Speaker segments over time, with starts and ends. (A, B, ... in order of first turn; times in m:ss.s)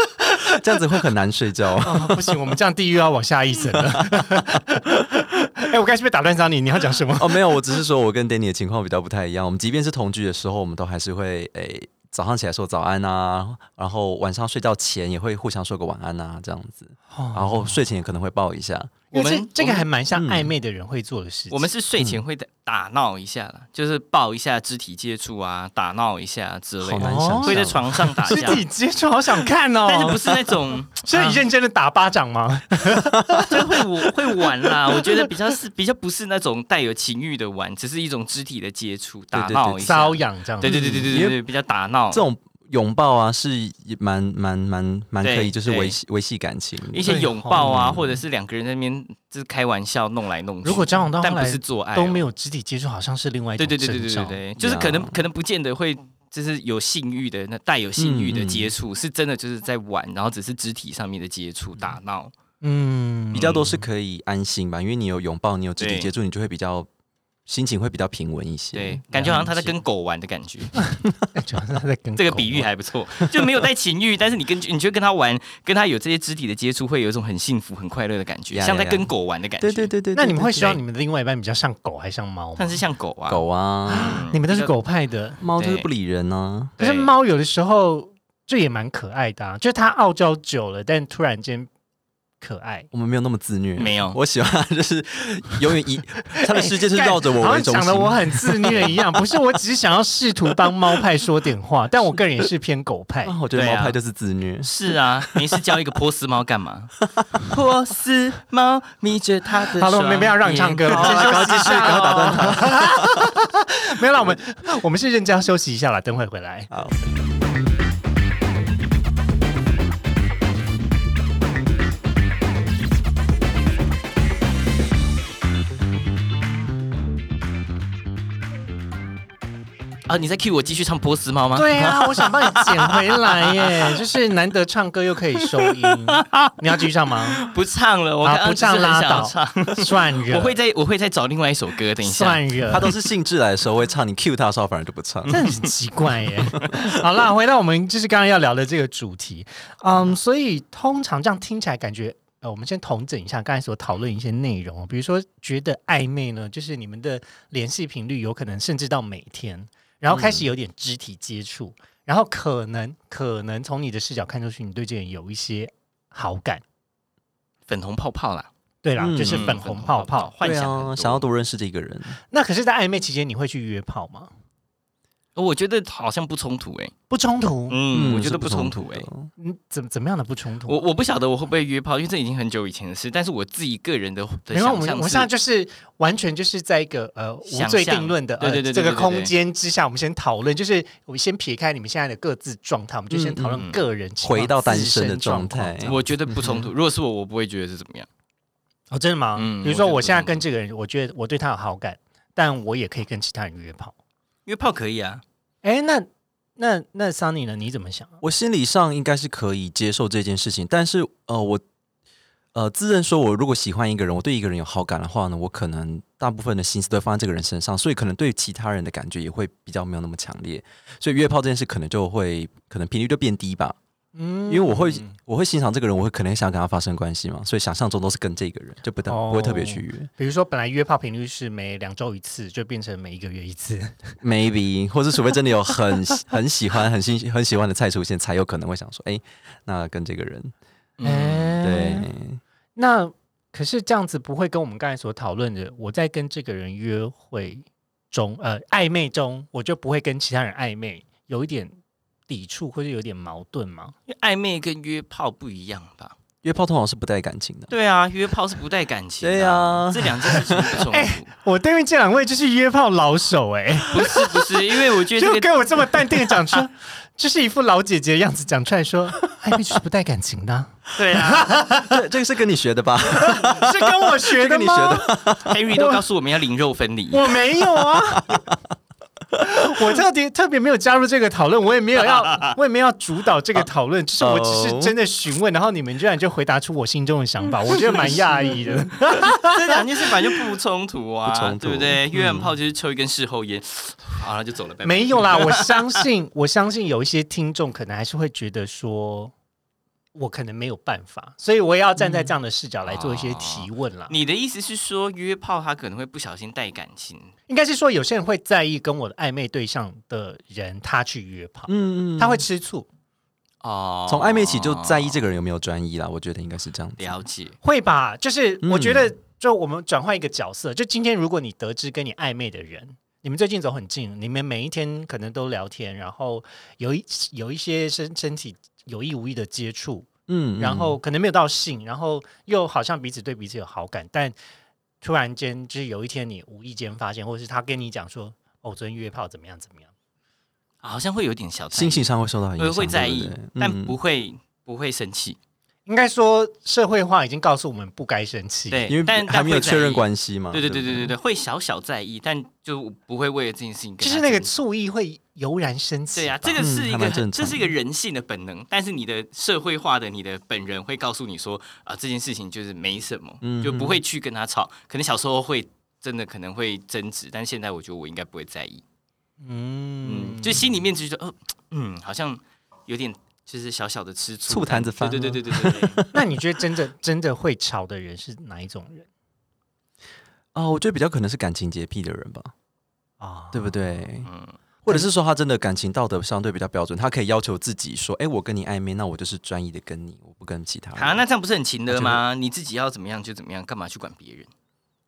0:00.6-0:02.4 A
0:01.8-0:07.6 B
0:03.7-0:04.6 A
0:07.2-0:19.0 A
0:17.1-0:17.8 B
0:19.1-0:21.7 B
0:19.1-0:19.9 C
0:20.2-0:20.5 A
0:21.5-0:28.6 C
0:26.8-0:28.6 A
0:27.0-0:27.7 B
0:28.2-0:35.3 B
0:29.9-0:31.4 C
0:33.5-0:42.2 C
0:39.3-0:39.8 A
0:39.7-0:41.1 B
0:40.6-0:41.4 A
0:42.1-0:48.2 A
0:45.2-0:46.0 C
0:46.9-0:52.3 C
0:47.0-0:47.7 B
0:50.6-0:54.4 B
0:53.6-1:02.3 C
0:54.6-0:55.2 A
0:58.0-0:58.7 A
1:02.6-1:03.8 B
1:03.3-1:06.9 A
1:05.8-1:06.1 C
1:07.5-1:09.7 A
1:08.7-1:10.7 C
1:09.1-1:09.5 B
1:10.8-1:12.7 B
1:12.2-1:19.9 C
1:18.5-1:20.8 A
1:20.2-1:22.8 B
1:22.6-1:24.7 C
1:23.3-1:24.2 A
1:23.9-1:25.4 B
1:25.4-1:26.7 A
1:25.6-1:25.9 C
1:26.8-1:27.1 C
1:26.8-1:31.7 B
1:32.4-1:32.9 B
1:32.9-1:39.0 A
1:33.8-1:34.2 C
1:36.3-1:43.4 B
1:43.2-1:45.6 A
1:43.5-1:44.0 C
1:44.6-1:52.5 C
1:49.8-1:56.7 B
1:50.9-1:53.2 A
1:56.7-1:57.0 A
2:10.1-2:14.0 C
2:11.6-2:17.4 B
2:15.9-2:16.5 C
2:17.4-2:22.9 C
2:18.2-2:20.6 B
2:22.0-2:22.9 B
2:22.7-2:25.5 A
2:25.3-2:46.6 B
2:40.1-2:40.4 A
2:47.7-2:48.5 C
2:48.8-2:50.3 B
2:49.0-2:49.6 A
2:49.2-2:51.2 C
2:50.4-2:52.2 A
2:52.3-2:54.3 B
2:55.4-2:56.9 C
2:57.1-2:57.8 B
2:57.7-2:59.1 C
2:57.9-2:59.3 A
2:59.4-3:00.8 B
3:00.7-3:05.3 C
3:04.5-3:16.0 B
3:07.5-3:09.3 C
3:13.1-3:13.6 A
3:14.2-3:16.7 A
3:15.8-3:18.1 C
3:18.9-3:24.0 B
3:19.4-3:20.4 C
3:24.5-3:25.2 C
3:25.6-3:28.2 B
3:28.2-3:31.6 A
3:32.5-3:43.8 A
3:44.2-3:45.2 B
3:44.5-3:50.1 A
3:49.1-3:54.2 B
3:54.2-4:00.5 A
4:01.0-4:01.6 C
4:01.0-4:02.1 B
4:01.6-4:02.4 A
4:02.8-4:11.8 B
4:12.3-4:14.0 B
4:14.1-4:16.2 C
4:16.4-4:17.7 A
4:17.7-4:21.3 C
4:19.2-4:20.8 A
4:20.9-4:32.0 B
4:23.9-4:26.2 C
4:31.0-4:31.5 C
4:31.9-4:35.6 A
4:33.1-4:36.0 B
4:35.4-4:37.4 C
4:37.1-4:38.4 B
4:37.8-4:38.4 A
4:39.4-4:50.3 B
4:42.0-4:42.6 C
4:44.2-4:45.0 A
4:47.8-4:48.8 C
4:47.9-4:48.9 A
4:49.4-4:56.0 C
4:51.3-4:52.5 A
4:54.8-4:59.3 B
5:00.2-5:04.2 B
5:02.0-5:02.3 A
5:02.8-5:07.3 C
5:07.5-5:12.9 B
5:11.7-5:12.4 A
5:13.6-5:15.2 C
5:14.1-5:17.2 A
5:17.0-5:17.6 C
5:17.6-5:34.4 B
5:18.6-5:19.1 A
5:30.3-5:31.0 A
5:35.0-5:39.9 B
5:40.8-5:45.4 C
5:41.7-5:44.0 A
5:45.9-5:48.9 B
5:48.7-5:54.5 C
5:48.9-5:51.1 A
5:54.0-5:56.6 B
5:56.1-6:08.8 C
5:56.6-5:57.7 A
6:03.4-6:04.0 A
6:09.4-6:10.8 B
6:10.0-6:16.0 C
6:14.5-6:16.2 A
6:16.1-6:19.1 B
6:20.5-6:22.5 A
6:23.2-6:24.1 B
6:23.5-6:24.3 A
6:24.3-6:24.6 C
6:24.8-6:31.2 A
6:31.0-6:34.5 C
6:31.9-6:32.2 A